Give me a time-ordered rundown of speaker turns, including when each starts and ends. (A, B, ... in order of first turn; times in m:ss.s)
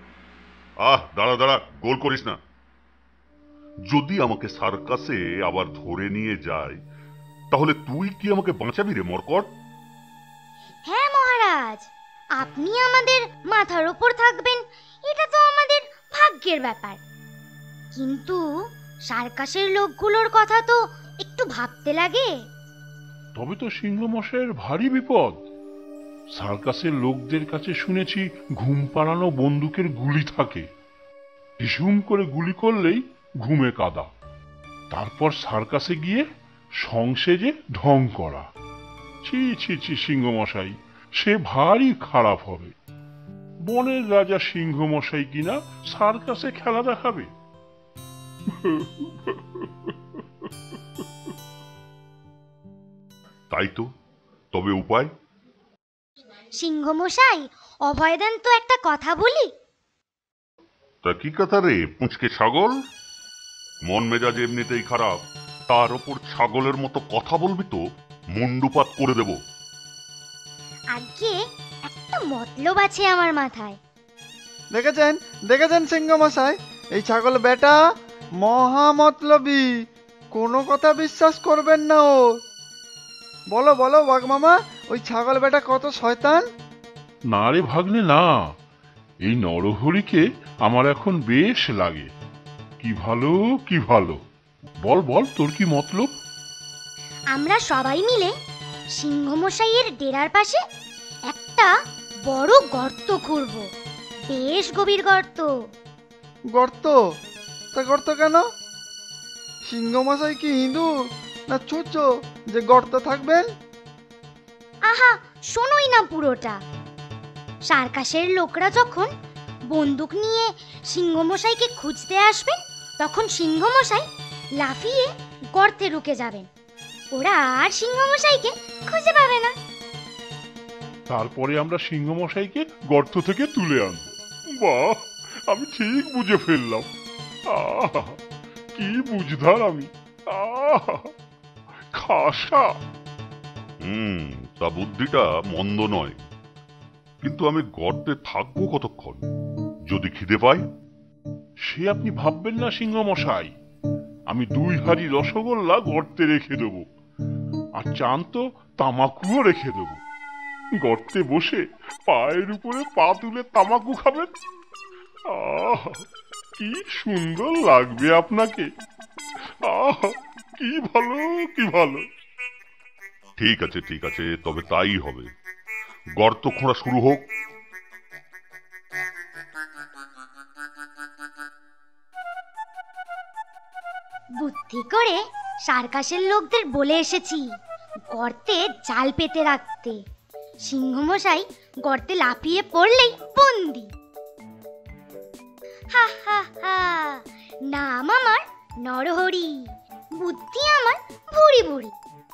0:00.8-0:02.4 A
0:03.9-0:06.8 A
0:07.5-0:09.5 A
0:10.9-0:17.0 B
0:17.9-0:18.4 B
0:19.1-0:22.3 B
0:23.4-0:25.4 C
0:26.4-0:30.7 C
0:31.6-0:34.1 C
0:34.9-0:36.3 C
0:36.8-0:38.5 C
0:39.2-0:42.8 C
0:43.6-0:47.3 C
0:48.5-0:49.9 C
0:53.5-0:53.9 A
0:54.5-0:55.1 A
0:56.6-0:59.5 B
1:01.0-1:02.8 A
1:03.9-1:07.8 A
1:08.3-1:09.4 A
1:10.9-1:13.8 B
1:14.7-1:17.8 D
1:18.4-1:19.7 D
1:20.3-1:22.4 D
1:23.5-1:26.4 D
1:27.3-1:28.5 C
1:29.2-1:32.1 C
1:32.8-1:34.2 C
1:34.8-1:36.1 C
1:37.3-1:38.3 B
1:39.0-1:40.6 B
1:41.3-1:41.7 B
1:42.3-1:43.7 B
1:44.3-1:45.5 B
1:46.6-1:47.0 D
1:47.7-1:48.5 D
1:49.7-1:50.9 D
1:51.5-1:53.5 D
1:54.9-1:56.6 B
1:57.7-1:59.1 B
1:59.7-2:04.1 B
2:04.6-2:06.5 B
2:07.1-2:09.5 B
2:11.1-2:16.9 C
2:17.5-2:18.2 C
2:18.8-2:21.1 C
2:21.9-2:22.7 C
2:23.8-2:26.2 A
2:27.2-2:29.2 A
2:29.9-2:30.6 A
2:31.7-2:33.5 C
2:34.3-2:36.8 C
2:37.8-2:40.0 C
2:40.8-2:44.3 C
2:45.3-2:46.0 C
2:46.6-2:48.7 C
2:49.6-2:52.0 C
2:53.4-2:55.3 A
2:56.2-2:57.2 A
3:04.4-3:07.5 B
3:08.1-3:10.0 B
3:10.7-3:13.9 B
3:15.9-3:22.0 B